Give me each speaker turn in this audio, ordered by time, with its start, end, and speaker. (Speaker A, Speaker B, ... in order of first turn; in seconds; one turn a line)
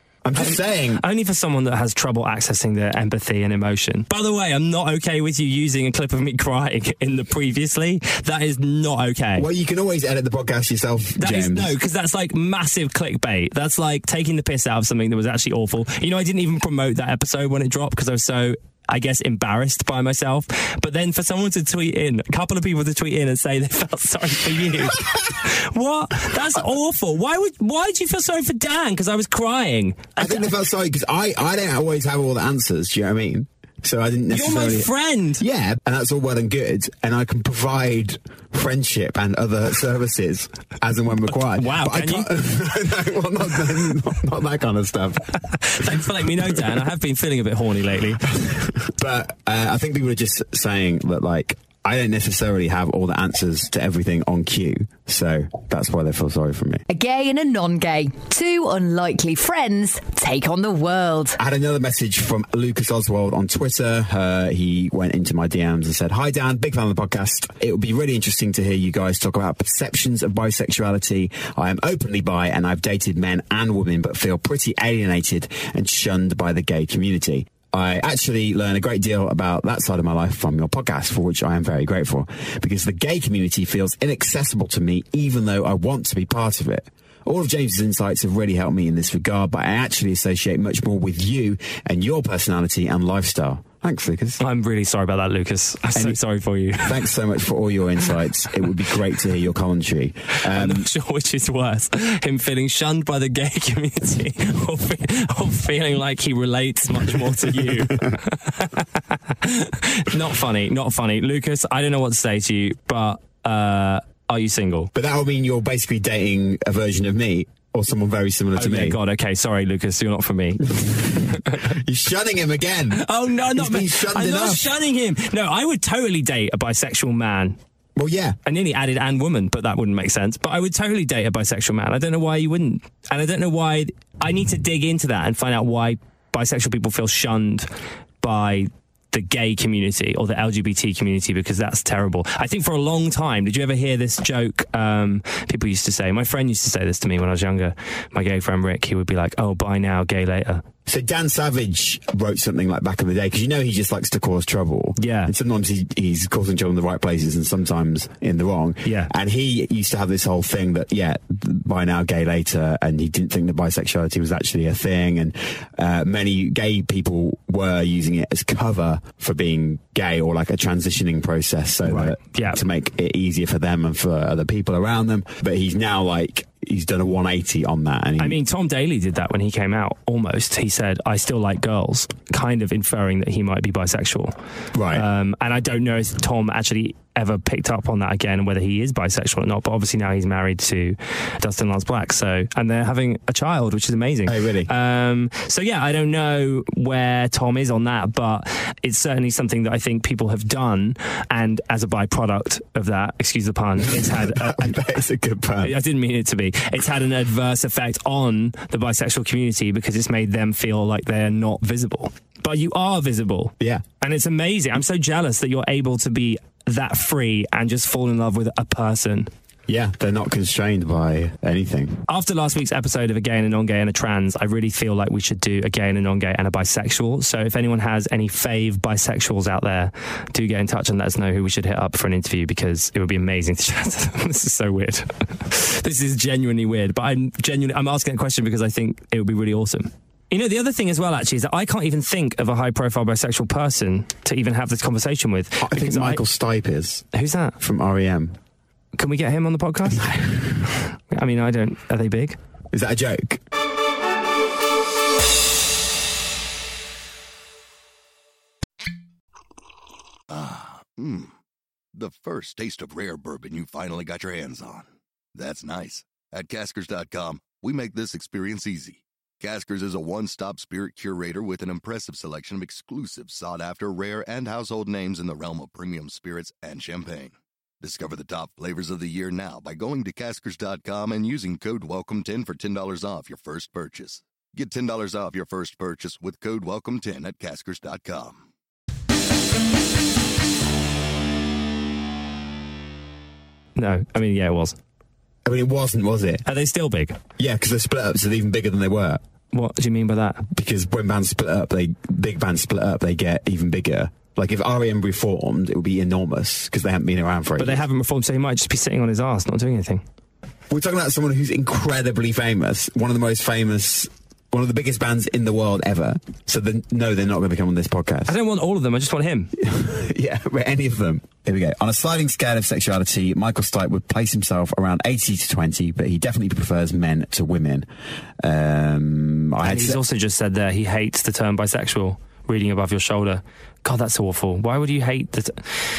Speaker A: 0.2-1.0
Speaker B: 0.4-9.3
Speaker A: 9.4-11.8
Speaker B: 11.2-30.4
Speaker A: 30.2-46.1
Speaker B: 34.4-35.4
Speaker B: 41.6-42.3
Speaker B: 45.5-48.0
Speaker A: 48.4-56.8
Speaker C: 56.9-61.4
Speaker A: 61.4-94.4
Speaker B: 94.5-96.9
Speaker A: 95.9-96.2
Speaker A: 96.8-100.9
Speaker B: 100.6-108.9
Speaker B: 109.4-114.9
Speaker A: 115.0-119.0
Speaker B: 118.6-121.6
Speaker A: 120.7-124.7
Speaker B: 123.0-127.5
Speaker A: 128.0-128.4
Speaker B: 128.5-137.7
Speaker B: 138.2-149.2
Speaker B: 149.8-150.3
Speaker A: 150.9-178.4
Speaker B: 155.0-155.3
Speaker B: 171.9-172.6
Speaker B: 178.2-184.3
Speaker A: 184.7-185.1
Speaker B: 185.0-204.8
Speaker A: 194.2-194.7
Speaker A: 203.9-205.8
Speaker B: 205.7-213.5
Speaker A: 213.6-213.8
Speaker B: 214.0-219.3
Speaker A: 219.7-222.1
Speaker B: 222.1-246.2
Speaker A: 245.6-247.1
Speaker B: 247.2-247.5
Speaker A: 247.6-248.3
Speaker B: 249.0-249.9
Speaker A: 249.9-250.5
Speaker B: 251.1-252.4
Speaker A: 252.7-253.4
Speaker D: 260.3-261.3
Speaker D: 261.9-288.4
Speaker B: 293.8-294.7
Speaker A: 295.4-296.4
Speaker B: 296.5-297.1
Speaker A: 297.4-299.2
Speaker B: 299.5-300.1
Speaker A: 300.5-307.9
Speaker B: 307.8-309.9
Speaker A: 310.7-318.4
Speaker B: 318.3-319.4
Speaker A: 319.6-327.9
Speaker A: 328.4-330.0
Speaker B: 329.7-333.4
Speaker B: 334.1-335.6